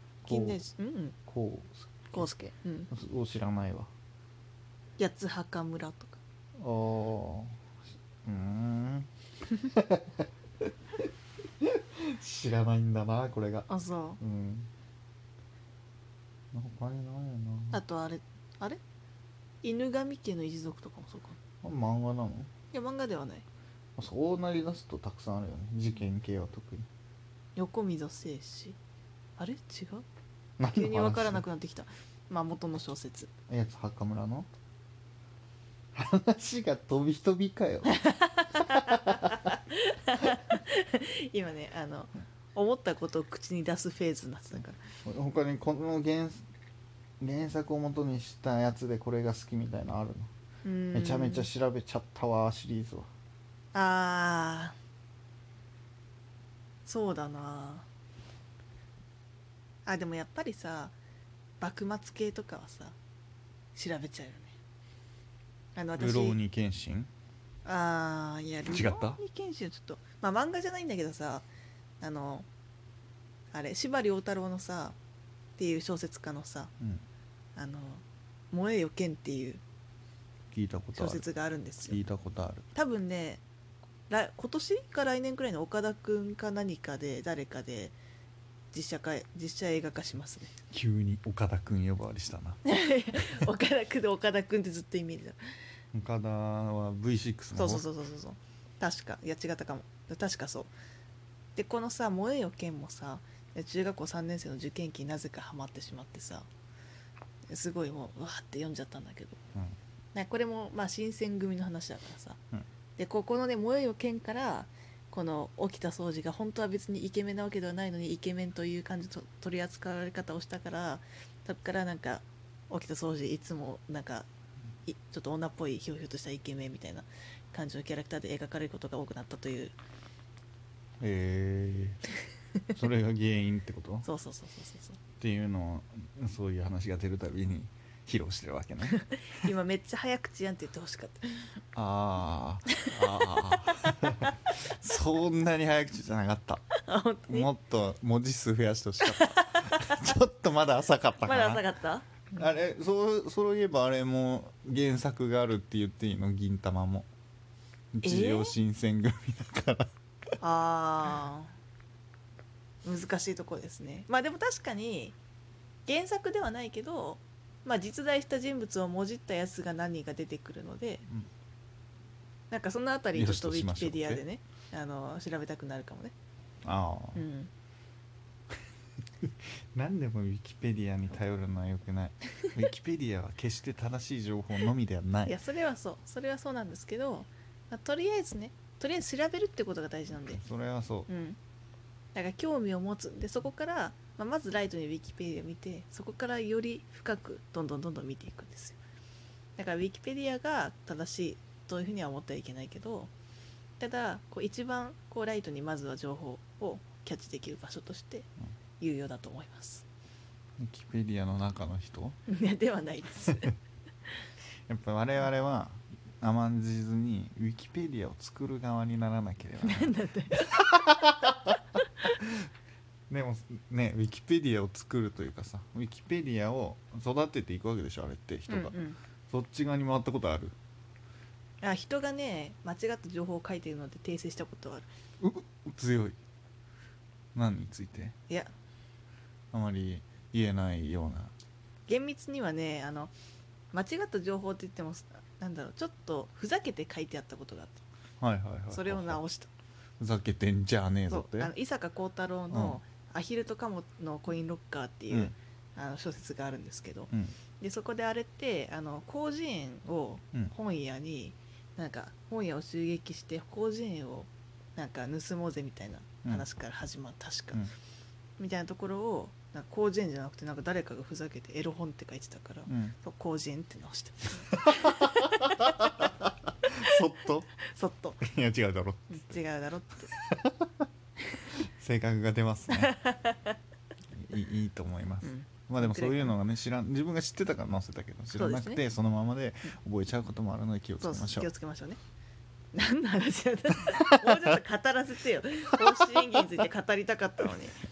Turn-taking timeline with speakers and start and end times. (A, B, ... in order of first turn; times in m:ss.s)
0:00.2-0:00.6 A
0:00.3-0:01.2 B
0:01.3-0:02.3 A
0:02.1-0:02.9 B
0:02.9-0:03.9 A
0:05.0-0:06.2 B
0:06.6-0:07.7 A
0:08.2-0:11.1 A
0:11.6-0:13.7 A
0:13.7-0:14.2 B
0:14.2-0:14.7 A
0:16.5-0:17.8 A
0:17.7-0:18.8 B
0:19.6-0:21.4 B
0:21.6-0:22.5 A
0:22.7-0:23.5 B
0:24.0-0:26.9 A
0:27.6-0:28.8 B
0:29.4-0:30.1 B
0:30.6-0:31.4 A
0:30.7-0:33.3 B
0:33.5-0:34.5 A
0:35.9-0:39.4 A
0:37.9-0:44.8 B
0:45.0-0:46.4 A
0:47.2-0:50.3 A
0:50.6-0:51.5 B
0:50.9-0:53.1 A
0:53.7-0:54.8 B
0:56.8-0:57.9 B
0:59.9-1:01.0 B
1:01.6-1:03.0 B
1:03.7-1:04.6 B
1:05.8-1:06.4 B
1:06.0-1:07.1 A
1:07.6-1:11.5 B
1:08.7-1:09.2 A
1:12.0-1:12.5 B
1:13.5-1:15.0 B
1:15.6-1:16.7 B
1:16.8-1:17.0 A
1:17.6-1:19.6 B
1:20.5-1:21.3 A
1:20.9-1:22.0 B
1:21.8-1:22.7 A
1:22.8-1:23.4 B
1:24.1-1:28.0 B
1:28.7-1:30.5 B
1:30.7-1:32.6 A
1:32.7-1:35.4 B
1:33.2-1:33.4 A
1:35.9-1:37.9 A
1:37.6-1:40.7 B
1:41.6-1:46.5 B
1:47.5-1:49.4 B
1:50.1-1:52.4 B
1:53.0-2:04.3 B
2:04.9-2:09.8 B
2:11.0-2:12.0 A
2:12.7-2:14.1 A
2:14.0-2:15.0 B
2:15.2-2:19.5 A
2:18.9-2:21.5 B
2:21.8-2:26.7 A
2:26.8-2:27.5 B
2:27.3-2:31.6 A
2:29.0-2:30.1 B
2:31.2-2:32.5 B
2:32.3-2:37.1 A
2:37.9-2:39.9 A
2:38.0-2:38.6 B
2:40.4-2:41.5 B
2:42.8-2:45.2 B
2:45.9-2:51.1 B
2:52.5-2:56.1 B
2:53.1-2:54.2 A
2:56.6-2:57.3 A
2:57.2-2:57.5 B
2:59.2-3:05.4 A
3:05.3-3:10.4 B
3:10.3-3:11.1 A
3:11.1-3:11.4 B
3:12.2-3:18.8 B
3:19.6-3:23.1 B
3:23.8-3:28.3 B
3:28.8-3:29.8 B
3:30.6-3:32.2 A
3:32.3-3:33.5 B
3:34.7-3:41.6 A
3:39.6-3:40.9 B
3:43.1-3:48.8 A
3:48.5-3:49.0 B
3:49.3-3:50.6 A
3:51.6-3:54.9 B
3:55.2-3:56.2 A
3:57.4-3:58.2 A
3:59.5-4:01.3 A
4:01.9-4:03.1 B
4:03.7-4:07.8 B
4:08.2-4:09.2 A
4:08.7-4:09.5 B
4:10.0-4:11.5 A
4:11.1-4:27.6 B
4:12.5-4:12.8 A
4:28.4-4:35.8 B
4:32.7-4:33.0 A
4:34.6-4:37.5 A
4:37.7-4:38.2 B
4:38.2-4:39.4 A
4:39.1-4:40.1 B
4:40.1-4:40.9 A
4:41.5-4:43.0 A
4:42.7-4:43.6 B
4:44.1-4:51.5 A
4:45.2-4:46.4 B
4:48.4-4:48.8 B
4:51.0-4:52.0 B
4:52.7-4:57.8 B
4:53.8-4:54.6 A
4:55.8-4:56.6 A